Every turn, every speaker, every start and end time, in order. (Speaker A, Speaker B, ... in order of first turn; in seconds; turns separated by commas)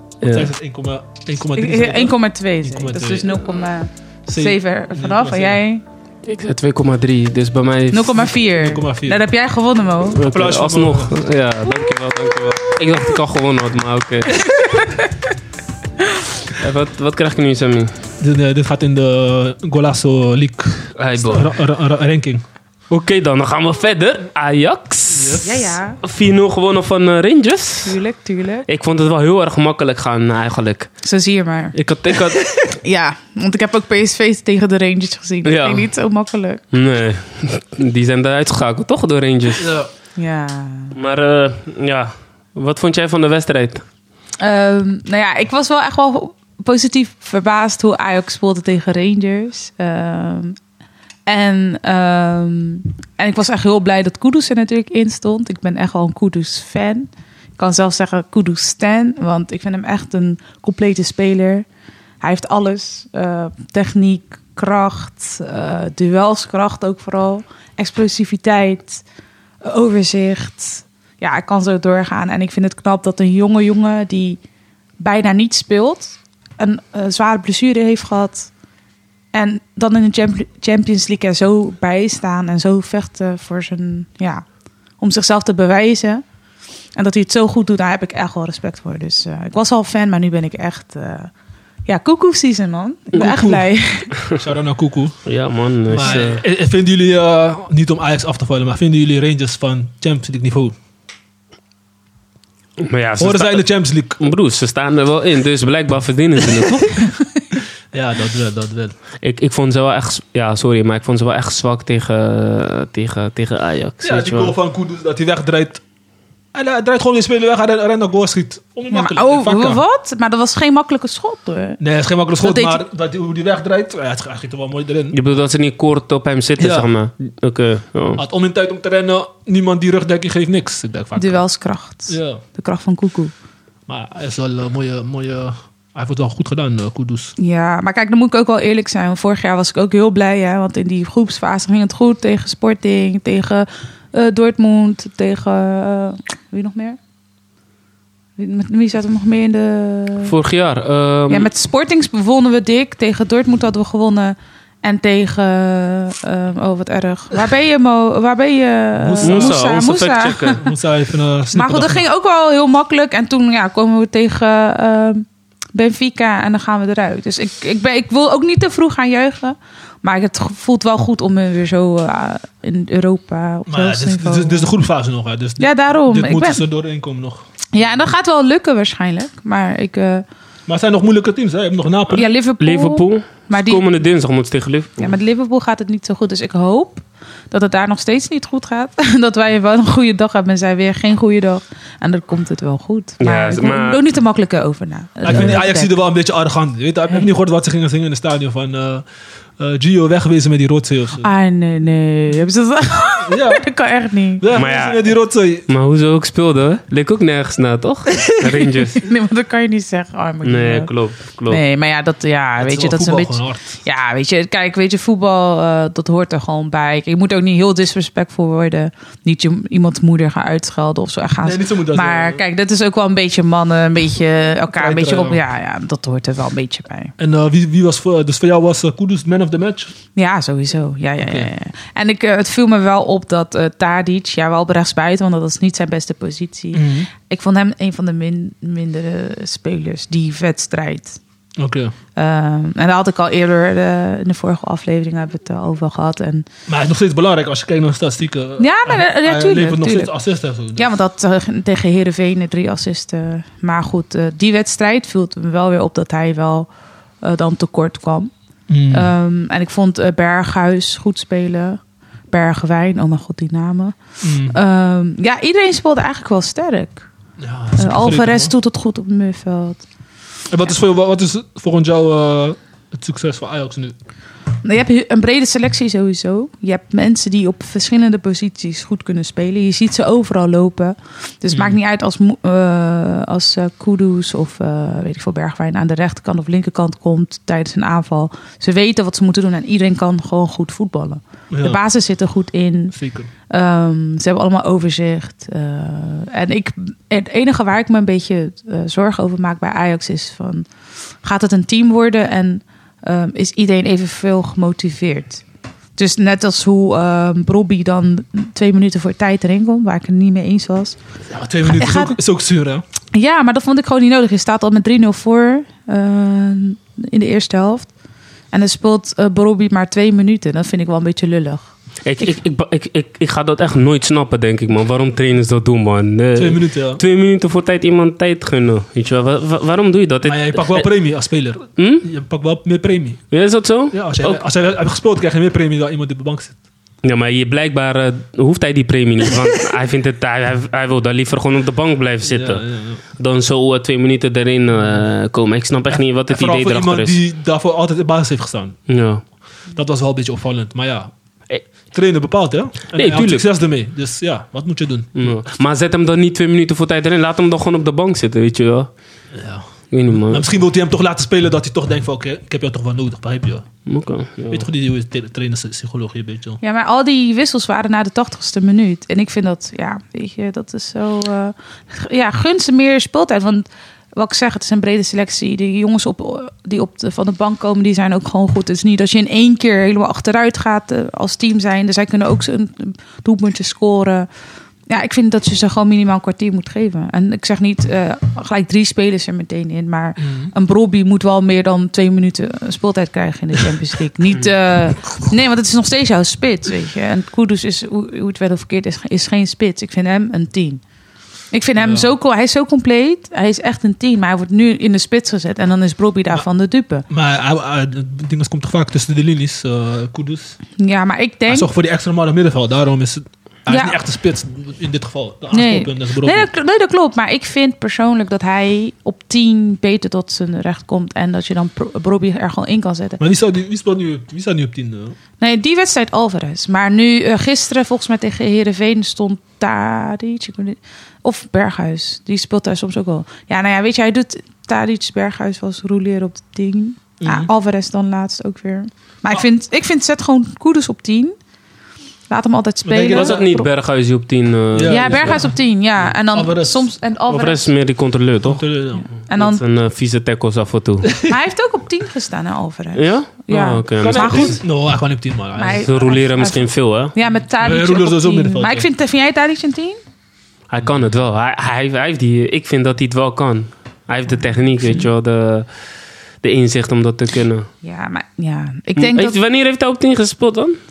Speaker A: 0.2-0.5, Speaker B: 0.3-3.4, Speaker C: 1.6-5.8, Speaker B: 4.3-5.6, Speaker A: 6.2-8.3, Speaker C: 7.9-10.2, Speaker B: 8.4-9.2, Speaker A: 10.1-14.9, Speaker B: 10.2-11.2, Speaker C: 14.7-15.1, Speaker A: 16.5-17.9, Speaker B: 18.2-22.4, Speaker A: 21.0-21.5, Speaker A: 22.9-25.5, Speaker B: 25.1-25.6, Speaker C: 25.4-26.0, Speaker A: 26.0-28.0, Speaker C: 27.8-28.6, Speaker A: 28.7-30.9, Speaker C: 31.0-31.8, Speaker A: 31.7-32.7, Speaker C: 32.6-36.6, Speaker A: 35.4-35.9, Speaker A: 36.7-39.7, Speaker B: 39.6-39.9, Speaker C: 40.1-40.9, Speaker A: 40.9-43.8, Speaker C: 44.4-50.6, Speaker C: 51.2-61.6, Speaker C: 62.2-69.0, Speaker C: 69.6-74.4, Speaker C: 75.0-78.5, Speaker C: 79.3-84.4, Speaker C: 85.0-86.2, Speaker C: 86.9-91.3, Speaker C: 91.9-94.2, Speaker B: 93.1-93.7, Speaker B: 94.2-95.2, Speaker A: 95.2-96.4, Speaker B: 95.9-100.8, Speaker C: 96.0-96.3, Speaker A: 102.8-103.7, Speaker B: 103.2-104.2, Speaker A: 104.2-107.1, Speaker C: 107.0-107.4, Speaker B: 107.9-108.9, Speaker A: 109.2-114.5, Speaker B: 114.0-115.8, Speaker B: 116.5-119.8, Speaker C: 118.9-121.8, Speaker B: 121.8-125.2, Speaker C: 122.4-122.8, Speaker A: 125.1-128.2, Speaker B: 126.6-126.9, Speaker B: 128.2-131.4, Speaker C: 131.2-133.3, Speaker B: 132.1-132.4, Speaker B: 133.9-137.3, Speaker C: 137.4-147.0, Speaker C: 148.4-150.3, Speaker A: 150.2-151.5, Speaker C: 151.3-160.6, Speaker B: 159.0-159.6, Speaker A: 159.2-160.6, Speaker B: 160.6-162.0, Speaker C: 161.5-174.7, Speaker B: 173.7-177.4, Speaker C: 175.6-176.6, Speaker C: 177.7-180.2, Speaker B: 180.7-182.3, Speaker C: 182.1-183.9, Speaker A: 182.6-185.1, Speaker C: 185.0-196.0, Speaker A: 193.2-194.0, Speaker B: 195.2-199.0, Speaker B: 199.6-201.3, Speaker C: 201.2-204.4, Speaker B: 203.2-203.7, Speaker B: 204.4-205.7, Speaker A: 204.5-205.1, Speaker A: 205.7-209.0, Speaker B: 208.2-208.5, Speaker C: 209.0-210.9, Speaker A: 210.4-211.6, Speaker C: 211.5-227.1, Speaker B: 212.6-213.8, Speaker B: 221.4-222.4, Speaker B: 224.7-225.4, Speaker B: 227.2-229.9, Speaker C: 230.1-241.2, Speaker B: 231.2-231.5, Speaker B: 236.7-237.1, Speaker B: 241.6-241.9, Speaker C: 242.1-246.5, Speaker B: 246.7-250.9, Speaker C: 248.6-250.1, Speaker C: 250.8-256.7, Speaker C: 257.2-258.3, Speaker B: 258.7-259.1, Speaker C: 258.9-261.8, Speaker C: 262.3-267.1, Speaker B: 264.2-264.6, Speaker B: 267.4-268.5, Speaker C: 267.8-269.9, Speaker B: 270.5-273.9, Speaker C: 274.6-292.9, Speaker B: 291.5-291.8, Speaker B: 292.9-293.3, Speaker C: 293.5-300.7, Speaker C: 301.2-305.4, Speaker C: 306.0-311.0, Speaker B: 311.3-312.8, Speaker C: 311.6-312.2, Speaker C: 313.1-317.9, Speaker C: 318.5-322.3, Speaker A: 322.0-330.9, Speaker B: 326.4-327.0, Speaker B: 330.2-333.2, Speaker A: 331.8-332.1, Speaker A: 333.3-334.4, Speaker B: 333.9-336.6, Speaker A: 337.0-347.2, Speaker B: 342.3-343.0, Speaker B: 345.9-348.8, Speaker A: 348.9-349.2, Speaker B: 349.7-351.1, Speaker B: 351.9-355.4, Speaker A: 352.9-353.5, Speaker A: 355.1-358.9, Speaker B: 359.3-363.7, Speaker A: 359.9-360.5, Speaker A: 363.9-364.6, Speaker B: 364.5-366.6, Speaker C: 366.6-384.3, Speaker C: 384.9-400.8, Speaker B: 390.2-390.5, Speaker C: 401.5-407.1, Speaker B: 401.8-402.1, Speaker B: 407.1-410.6, Speaker C: 410.8-411.7, Speaker B: 411.5-416.5, Speaker C: 413.7-414.0, Speaker C: 415.5-423.2, Speaker B: 423.2-425.1, Speaker C: 425.4-441.4, Speaker B: 437.2-437.5, Speaker C: 442.3-443.7, Speaker B: 442.9-443.5, Speaker A: 443.1-445.4, Speaker B: 444.7-446.9, Speaker C: 444.9-447.6, Speaker A: 447.3-448.6, Speaker B: 448.4-449.1, Speaker A: 449.2-451.2, Speaker C: 449.2-449.6, Speaker C: 451.2-454.6, Speaker A: 452.9-454.6, Speaker B: 454.0-456.0, Speaker C: 455.5-460.0, Speaker A: 455.7-457.1, Speaker B: 457.6-458.9, Speaker A: 460.7-465.7, Speaker A: 466.4-467.7, Speaker C: 467.8-469.4, Speaker A: 469.0-470.8